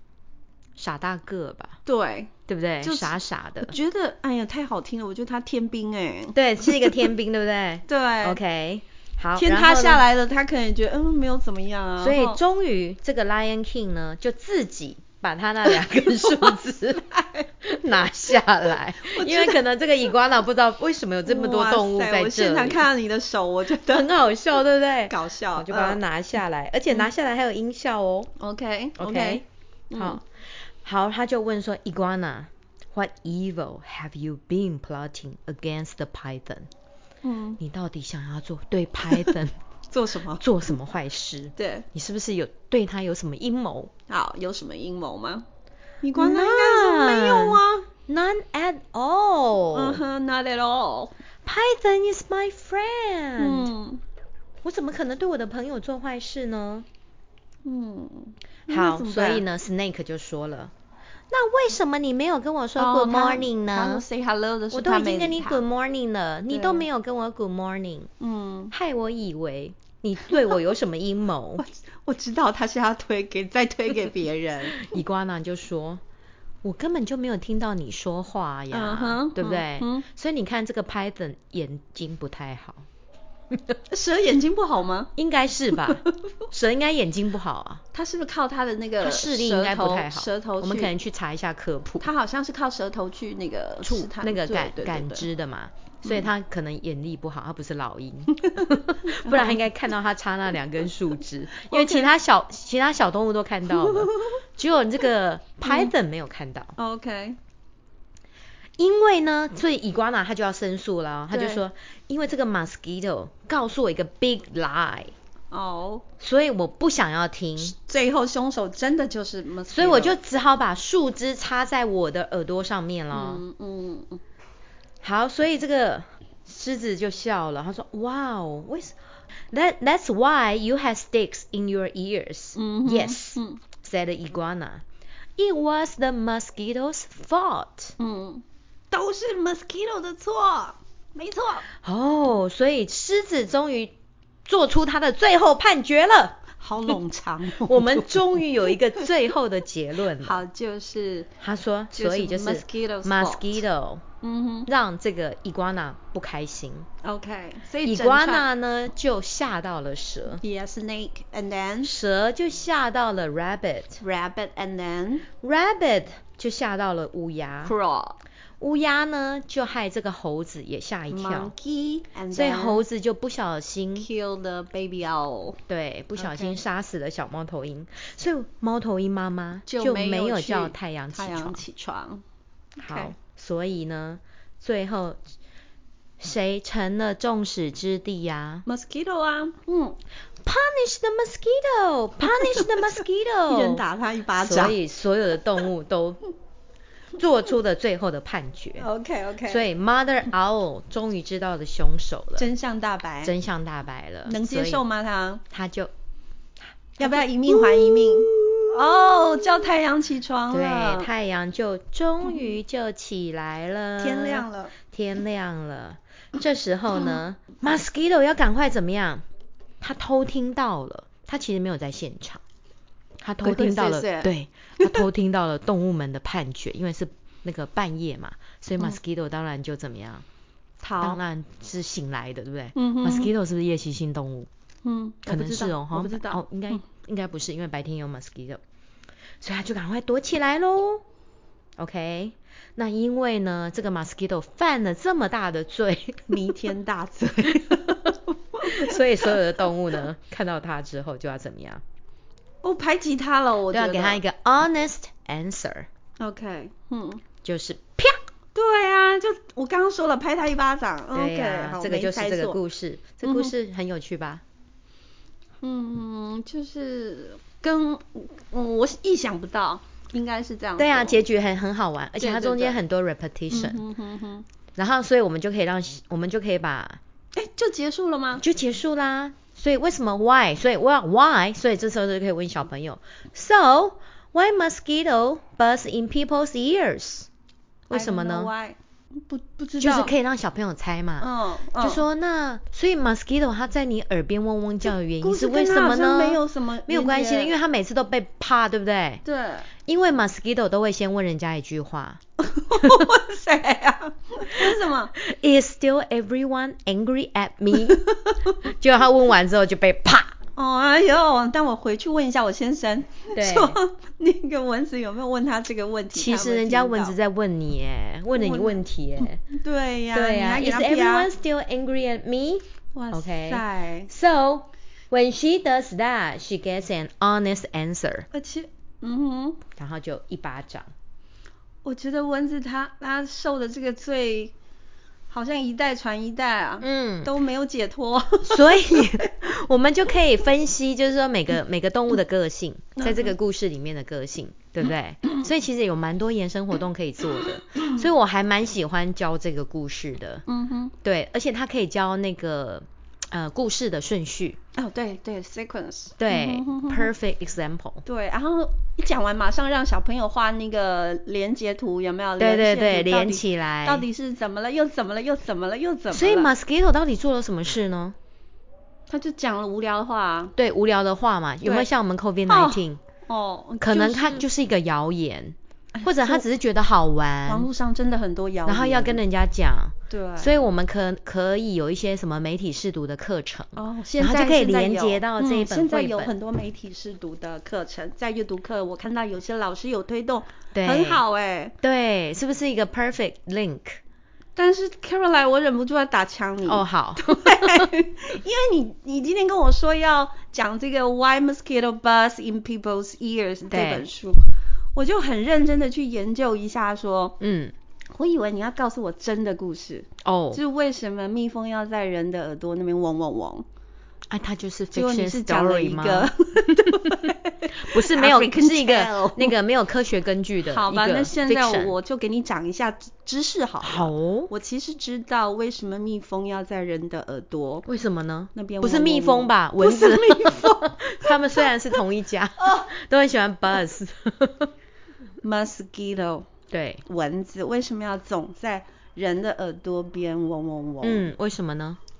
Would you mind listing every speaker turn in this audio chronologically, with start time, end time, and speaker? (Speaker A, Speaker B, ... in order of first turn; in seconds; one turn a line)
Speaker A: 0.8-1.8
Speaker B: 1.9-7.1
Speaker A: 2.5-3.7
Speaker A: 6.3-10.0
Speaker B: 7.9-8.4
Speaker B: 9.3-12.4
Speaker A: 12.0-17.0
Speaker B: 15.8-17.5
Speaker A: 17.6-22.9
Speaker B: 19.0-19.6
Speaker B: 21.2-24.1
Speaker A: 23.7-28.3
Speaker B: 25.1-26.0
Speaker B: 28.4-30.2
Speaker A: 29.0-29.4
Speaker A: 29.9-36.7
Speaker B: 37.2-37.6
Speaker A: 37.6-39.6
Speaker B: 39.1-39.3
Speaker B: 39.9-40.4
Speaker A: 40.4-43.9
Speaker B: 41.6-41.9
Speaker B: 44.1-45.4
Speaker B: 46.0-47.9
Speaker A: 46.1-50.0
Speaker B: 49.7-51.1
Speaker A: 51.4-53.7
Speaker B: 53.4-54.0
Speaker A: 54.6-56.9
Speaker B: 57.6-59.4
Speaker A: 58.7-60.7
Speaker A: 61.3-64.0
Speaker B: 62.8-65.7
Speaker A: 64.7-68.1
Speaker B: 66.5-66.8
Speaker B: 68.2-68.7
Speaker A: 68.7-71.6
Speaker B: 71.6-74.9
Speaker A: 74.8-76.0
Speaker A: 76.6-82.8
Speaker B: 78.7-80.0
Speaker A: 83.5-83.8
Speaker B: 83.9-85.1
Speaker A: 85.2-87.8
Speaker B: 87.9-90.9
Speaker A: 89.0-92.1
Speaker B: 92.0-95.2
Speaker A: 93.8-106.7
Speaker B: 98.4-99.6
Speaker B: 101.6-102.1
Speaker B: 105.6-105.9
Speaker B: 106.8-107.4
Speaker A: 108.8-115.1
Speaker B: 111.3-111.6
Speaker B: 115.5-116.0
Speaker A: 116.2-117.7
Speaker B: 117.6-120.2
Speaker A: 119.7-123.4
Speaker B: 123.1-124.2
Speaker A: 125.0-128.9
Speaker A: 129.5-134.8
Speaker B: 132.6-133.6
Speaker A: 135.4-137.9
Speaker B: 138.0-141.7
Speaker A: 141.8-143.9
Speaker A: 144.4-147.0
Speaker B: 146.6-149.1
Speaker A: 147.5-150.4
Speaker B: 150.2-151.3
Speaker A: 151.4-154.0
Speaker B: 151.9-153.6
Speaker B: 154.2-154.7
Speaker A: 154.7-156.9
Speaker B: 157.0-158.4
Speaker A: 157.8-160.4
Speaker B: 160.4-161.9
Speaker A: 161.8-164.0
Speaker B: 164.0-165.2
Speaker A: 165.4-167.7
Speaker B: 167.6-168.2
Speaker A: 168.6-171.5
Speaker B: 171.1-172.8
Speaker A: 172.3-174.1
Speaker B: 174.0-175.6
Speaker A: 175.7-181.6
Speaker B: 176.2-176.6
Speaker B: 179.7-182.2
Speaker B: 182.8-183.1
Speaker A: 182.8-185.2
Speaker A: 186.2-188.6
Speaker B: 188.7-190.0
Speaker A: 190.4-193.8
Speaker B: 192.3-192.7
Speaker B: 193.5-194.8
Speaker A: 194.4-196.2
Speaker A: 197.2-198.8
Speaker B: 198.8-199.7
Speaker A: 199.4-202.5
Speaker B: 202.4-203.3
Speaker A: 203.2-204.8
Speaker B: 204.2-205.4
Speaker A: 205.5-205.9
Speaker A: 207.0-209.7
Speaker B: 207.0-211.1
Speaker A: 210.5-219.2
Speaker B: 214.0-214.7
Speaker A: 219.8-222.4
Speaker A: 223.2-230.2
Speaker B: 223.4-225.0
Speaker B: 230.8-231.2
Speaker A: 231.0-234.5
Speaker B: 232.7-233.3
Speaker B: 234.8-236.8
Speaker A: 235.2-238.6
Speaker A: 239.4-241.0
Speaker A: 241.8-246.4
Speaker B: 246.3-249.4
Speaker A: 248.6-251.8
Speaker B: 252.6-254.2
Speaker A: 253.7-255.9
Speaker B: 256.2-257.2
Speaker A: 257.4-258.2
Speaker B: 258.5-262.6
Speaker A: 261.1-264.4
Speaker B: 263.2-263.5
Speaker B: 265.6-271.2
Speaker A: 270.8-273.8
Speaker B: 272.2-272.8
Speaker B: 273.5-274.4
Speaker A: 274.8-277.0
Speaker B: 277.3-278.4
Speaker A: 278.4-287.3
Speaker A: 287.9-288.5
Speaker B: 287.9-290.1
Speaker A: 289.8-299.2
Speaker B: 291.2-292.0
Speaker B: 295.2-297.5
Speaker B: 299.2-299.7
Speaker A: 299.9-302.2
Speaker B: 302.4-305.1
Speaker A: 302.8-303.1
Speaker A: 304.5-308.1
Speaker B: 308.0-308.6
Speaker A: 308.6-310.4
Speaker B: 310.6-317.1
Speaker A: 313.3-313.8
Speaker A: 316.1-319.4
Speaker B: 318.3-318.8
Speaker B: 319.5-321.3
Speaker A: 320.1-328.3
Speaker B: 322.9-324.1
Speaker B: 328.3-329.6
Speaker A: 329.8-330.9
Speaker B: 331.8-334.5
Speaker B: 335.3-339.0
Speaker A: 336.8-337.3
Speaker A: 338.5-350.4
Speaker B: 343.0-343.3
Speaker B: 350.5-350.9
Speaker A: 351.0-354.6
Speaker B: 354.7-357.1
Speaker A: 356.2-358.0
Speaker B: 358.0-366.5
Speaker A: 362.4-364.1
Speaker A: 366.1-368.2
Speaker B: 369.1-370.5
Speaker A: 370.6-373.0
Speaker B: 371.6-371.9
Speaker B: 372.5-374.4
Speaker A: 373.8-377.7
Speaker B: 375.9-376.4
Speaker B: 377.4-379.2
Speaker A: 378.6-386.3
Speaker B: 380.1-380.6
Speaker B: 383.8-391.7
Speaker A: 390.7-391.2
Speaker A: 391.8-394.0
Speaker B: 394.6-407.4
Speaker A: 396.6-397.9
Speaker A: 403.7-404.1
Speaker A: 407.4-407.7
Speaker B: 408.1-413.6
Speaker A: 410.2-410.6
Speaker A: 414.3-421.9
Speaker B: 414.9-419.5
Speaker B: 420.7-427.9
Speaker A: 423.8-424.5
Speaker A: 427.9-434.7
Speaker B: 428.5-431.7
Speaker B: 435.4-436.5
Speaker A: 436.7-437.0
Speaker B: 437.1-441.3
Speaker A: 441.0-442.0